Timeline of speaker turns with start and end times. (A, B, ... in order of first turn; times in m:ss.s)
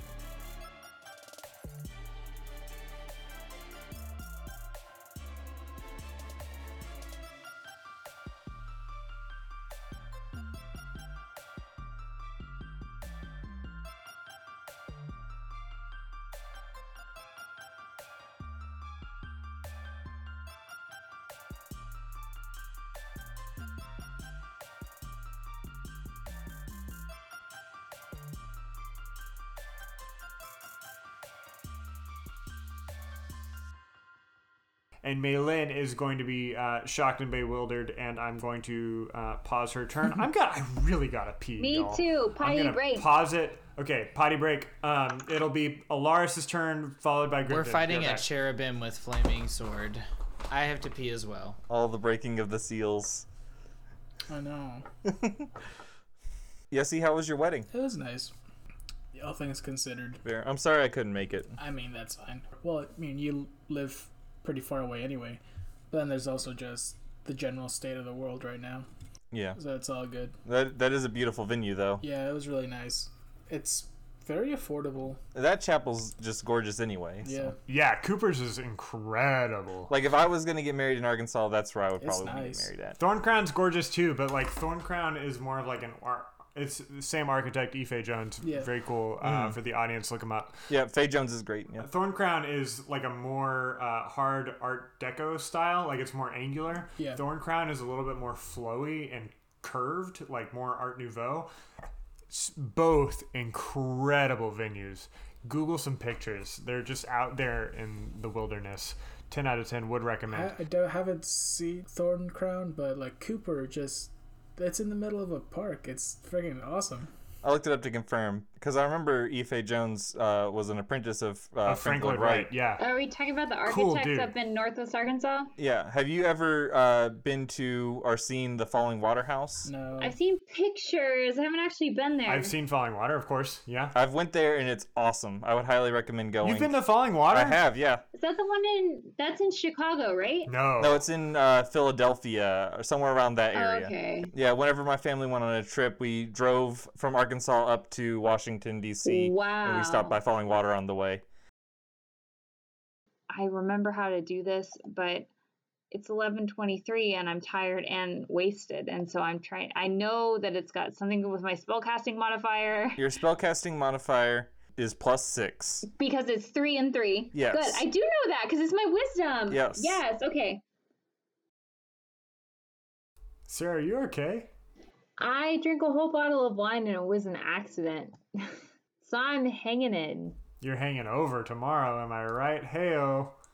0:35.0-0:48.3 A
0:41.6-0:43.1 B
0:47.5-0:51.6 C
0:51.7-0:53.3 D
0:54.3-0:54.9 E
0:55.1-0:55.4 D
0:56.7-0:57.7 D
0:57.7-0:58.3 E
0:59.1-1:00.2 E
1:00.2-1:01.6 D
1:01.6-1:08.9 E
1:09.3-1:09.6 D
1:09.6-1:10.4 E
1:10.4-1:12.0 D
1:12.0-1:15.2 E
1:15.3-1:17.5 D
1:17.2-1:17.6 E
1:17.7-1:19.9 A
1:19.9-1:23.0 D
1:22.0-1:22.7 E
1:23.0-1:30.7 A
1:28.4-1:28.7 E
1:29.2-1:29.6 D
1:30.7-1:31.9 D
1:31.8-1:41.5 A
1:42.3-1:50.5 A
1:50.3-1:57.1 E
1:57.4-2:02.5 D
2:01.6-2:02.8 A
2:02.8-2:05.5 B
2:03.6-2:04.3 A
2:05.6-2:09.7 D
2:09.6-2:10.2 E
2:10.0-2:12.6 B
2:12.3-2:14.0 A
2:13.9-2:16.8 D
2:16.4-2:17.6 A
2:17.3-2:18.0 D
2:18.2-2:20.5 B
2:20.5-2:21.0 A
2:20.8-2:31.2 D
2:23.5-2:24.3 B
2:29.0-2:30.2 B
2:33.3-2:35.3 B
2:35.9-2:43.0 B
2:43.0-2:45.9 D
2:45.9-2:50.6 B
2:47.3-2:47.8 D
2:49.5-2:50.0 D
2:53.5-2:54.5 A
2:55.2-3:00.4 B
3:00.6-3:03.4 A